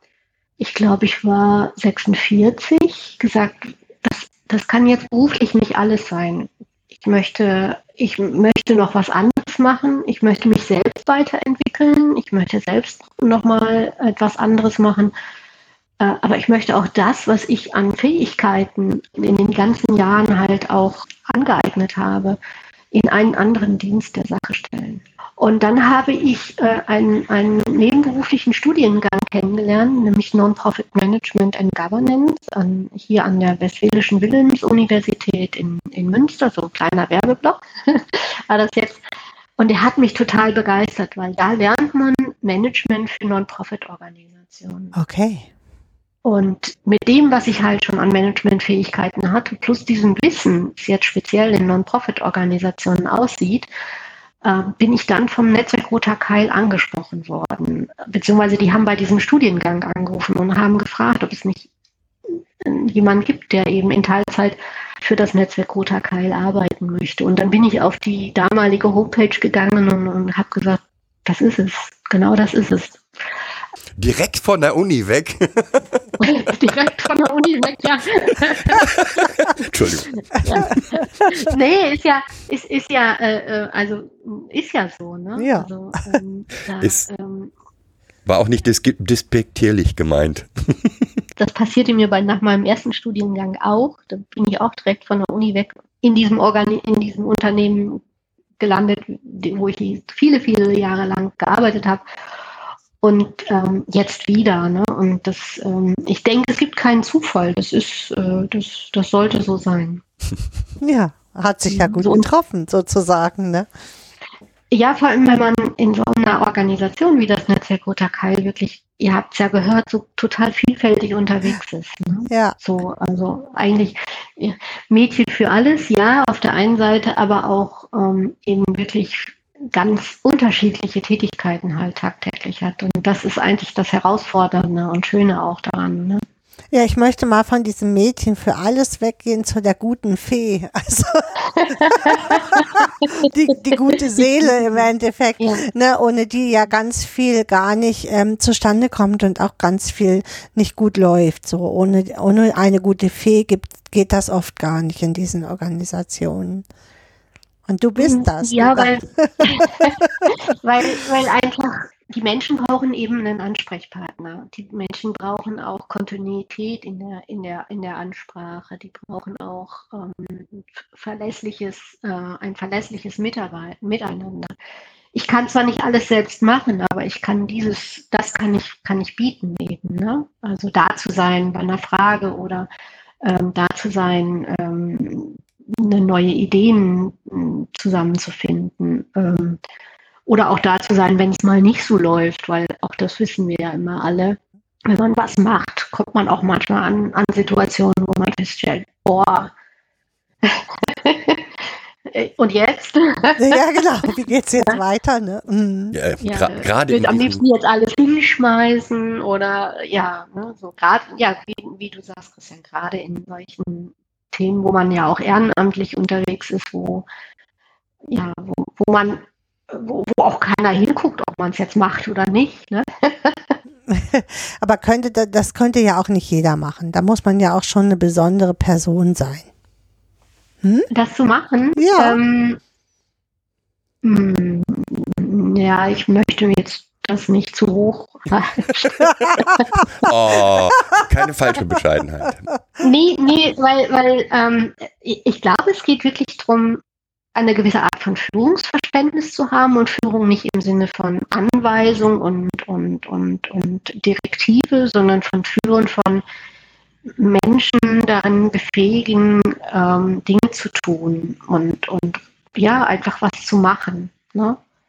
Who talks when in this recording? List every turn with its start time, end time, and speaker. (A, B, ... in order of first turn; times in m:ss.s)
0:00.6-0:15.1 A
0:16.0-0:22.4 A
0:22.9-0:39.0 A
0:39.6-0:45.0 A
0:44.9-0:45.5 B
0:46.2-0:53.7 A
0:54.4-1:01.7 A
1:02.6-1:13.1 A
1:14.0-1:16.0 C
1:16.2-1:18.8 A
1:18.7-1:20.2 C
1:20.3-1:27.5 A
1:25.4-1:26.2 B
1:28.2-1:30.9 C
1:31.4-1:38.0 A
1:38.6-1:42.0 A
1:43.0-1:50.0 A
1:50.8-1:53.7 B
1:51.6-1:52.3 A
1:54.7-2:16.2 A
2:02.3-2:02.5 B
2:16.7-2:36.6 B
2:21.4-2:23.3 A
2:25.4-2:25.6 A
2:37.7-2:39.9 B
2:38.0-2:54.5 A
2:55.1-3:02.7 A
3:03.2-3:09.6 A
3:10.3-3:19.5 A
3:20.4-3:21.4 A
3:22.1-3:24.1 A
3:23.4-3:26.0 B
3:25.9-3:27.4 C
3:26.2-3:37.0 A
3:38.1-3:43.6 A
3:43.9-3:49.5 B
3:50.6-3:50.9 B
3:50.9-3:52.6 A
3:51.8-3:52.2 B
3:54.0-3:59.7 A
4:00.0-4:02.5 C
4:02.8-4:06.8 A
4:07.3-4:16.2 A
4:17.2-4:24.6 A